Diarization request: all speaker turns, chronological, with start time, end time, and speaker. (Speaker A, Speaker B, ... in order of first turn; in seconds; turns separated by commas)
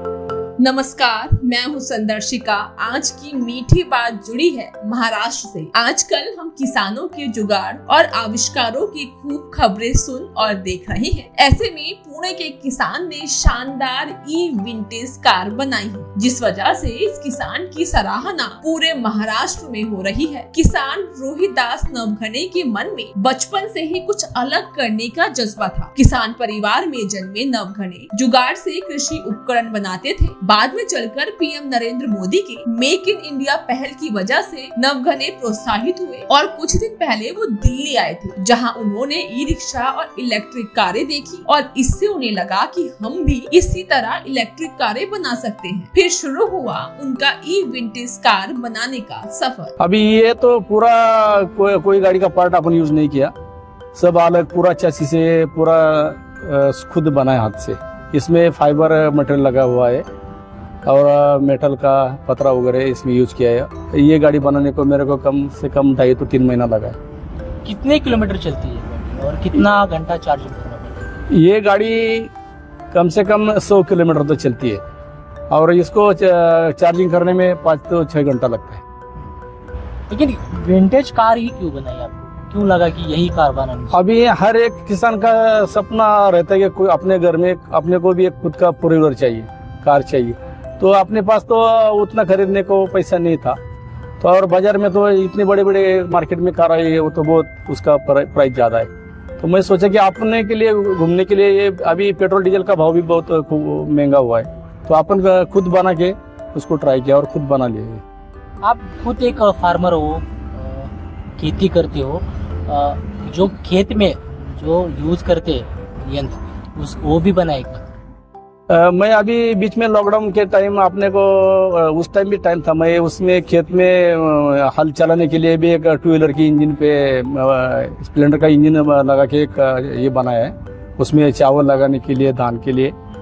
Speaker A: 0.6-49.7, Speaker B: 49.8-53.3, Speaker B: 54.0-60.0, Speaker B: 60.9-67.0, Speaker C: 67.6-71.1, Speaker B: 71.3-72.3, Speaker B: 72.9-74.8, Speaker B: 75.5-78.8, Speaker C: 80.1-84.0, Speaker B: 83.9-93.6, Speaker B: 94.2-108.0, Speaker C: 108.6-117.9, Speaker B: 118.7-132.9